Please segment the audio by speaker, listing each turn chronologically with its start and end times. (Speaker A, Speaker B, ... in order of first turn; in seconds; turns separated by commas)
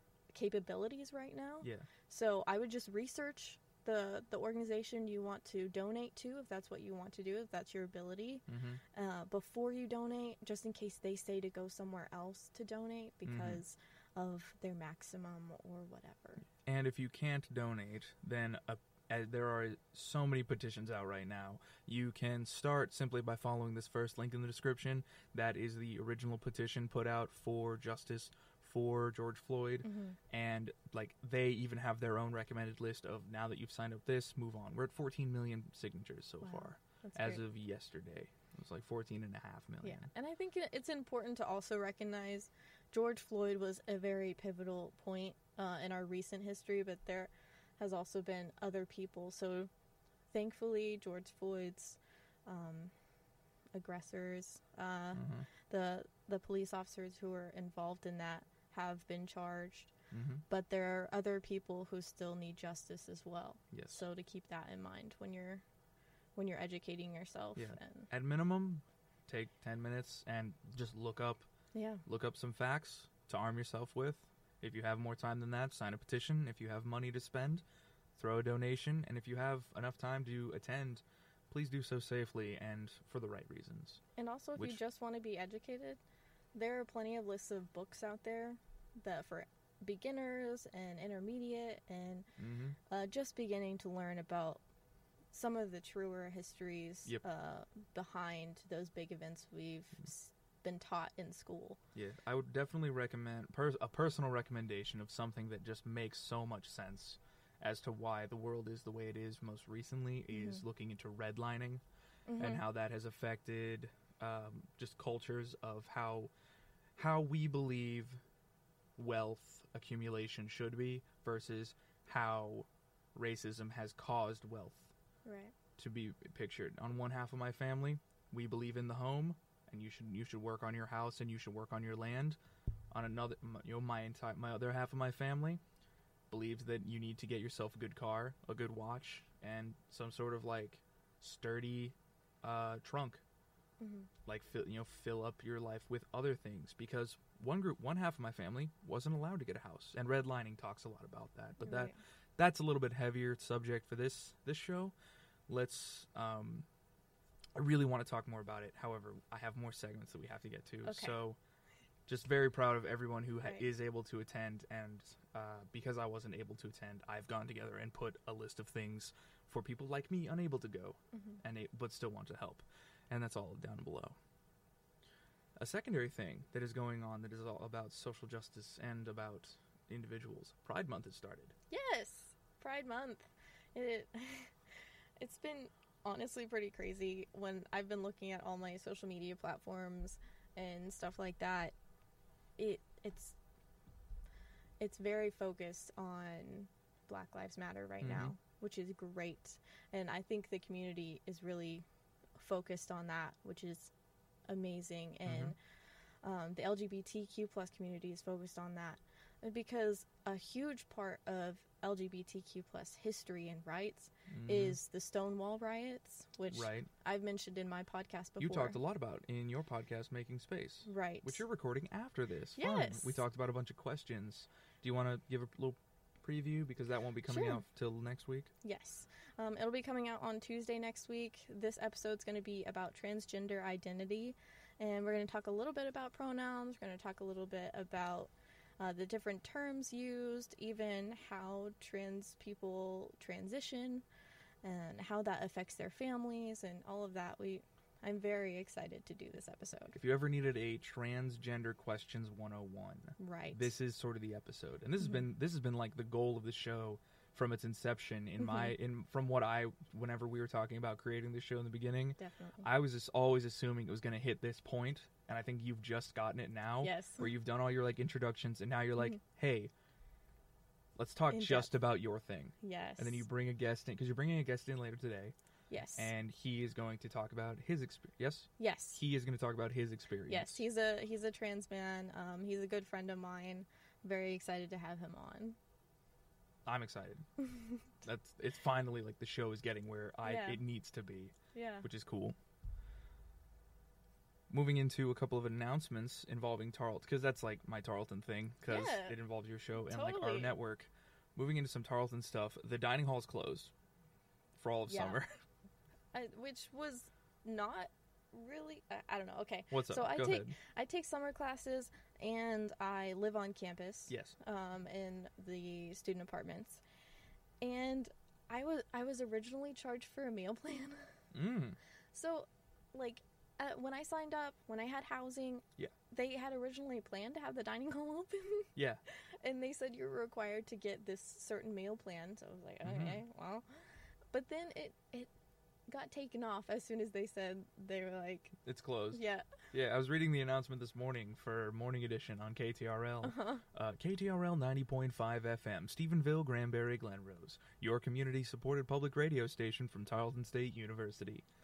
Speaker A: 0.3-16.4, Speaker B: 1.6-1.9, Speaker B: 8.5-8.8, Speaker B: 13.2-13.6, Speaker B: 16.6-40.1, Speaker A: 29.8-30.2, Speaker A: 36.4-37.4, Speaker A: 39.8-49.7, Speaker A: 50.3-52.9, Speaker A: 53.7-59.9, Speaker B: 55.1-55.5, Speaker B: 60.1-60.4, Speaker A: 60.5-65.6, Speaker B: 63.7-64.0, Speaker A: 66.4-68.1, Speaker B: 67.6-71.5, Speaker A: 71.7-72.0, Speaker B: 72.1-77.6, Speaker B: 78.2-84.0, Speaker A: 84.2-86.0, Speaker A: 86.5-92.3, Speaker B: 92.4-92.8, Speaker A: 92.9-94.6, Speaker A: 95.3-101.8, Speaker B: 102.0-111.8, Speaker A: 110.3-110.6, Speaker A: 112.3-112.6, Speaker B: 112.4-116.3, Speaker B: 117.0-118.2, Speaker B: 119.0-124.9, Speaker A: 125.2-125.5, Speaker B: 125.8-132.4, Speaker B: 132.9-135.6, Speaker B: 136.3-143.2, Speaker A: 143.8-144.1, Speaker B: 144.3-154.9, Speaker A: 151.6-152.0, Speaker B: 155.5-156.7, Speaker B: 157.6-161.4, Speaker A: 160.8-161.2, Speaker B: 162.1-174.2, Speaker A: 171.1-171.4, Speaker B: 175.6-181.5, Speaker A: 181.7-184.5, Speaker A: 185.2-191.7, Speaker A: 192.6-193.4, Speaker A: 194.8-201.8, Speaker B: 198.0-198.3, Speaker A: 202.4-203.9, Speaker A: 204.5-205.6, Speaker B: 205.2-205.6, Speaker A: 206.2-218.8, Speaker B: 214.3-214.8, Speaker B: 216.5-216.9, Speaker B: 218.4-228.5, Speaker A: 220.8-221.4, Speaker A: 222.6-223.2, Speaker A: 227.3-227.6, Speaker A: 228.6-244.1, Speaker A: 244.6-250.0, Speaker B: 249.9-269.7, Speaker A: 253.2-253.7, Speaker A: 258.4-258.7, Speaker A: 262.2-262.6, Speaker A: 266.8-267.3, Speaker B: 271.0-275.3, Speaker A: 271.3-271.7, Speaker A: 272.6-273.2, Speaker A: 275.7-276.1, Speaker B: 276.0-280.6, Speaker A: 278.6-279.0, Speaker A: 280.3-285.6, Speaker B: 286.6-287.2, Speaker A: 287.4-287.8, Speaker B: 288.0-292.4, Speaker A: 290.2-290.6, Speaker A: 291.5-291.9, Speaker B: 294.5-303.7, Speaker A: 298.7-299.2, Speaker A: 299.8-300.5, Speaker B: 304.6-305.3, Speaker A: 304.9-305.2, Speaker A: 306.1-316.8, Speaker B: 309.7-310.6, Speaker B: 314.1-314.4, Speaker A: 317.6-321.0, Speaker B: 321.3-321.8, Speaker A: 322.1-328.7, Speaker B: 328.8-329.0, Speaker A: 329.4-333.6, Speaker B: 332.8-333.2, Speaker A: 334.3-335.3, Speaker A: 335.9-338.6, Speaker B: 338.6-351.4, Speaker A: 339.1-339.5, Speaker A: 343.2-343.6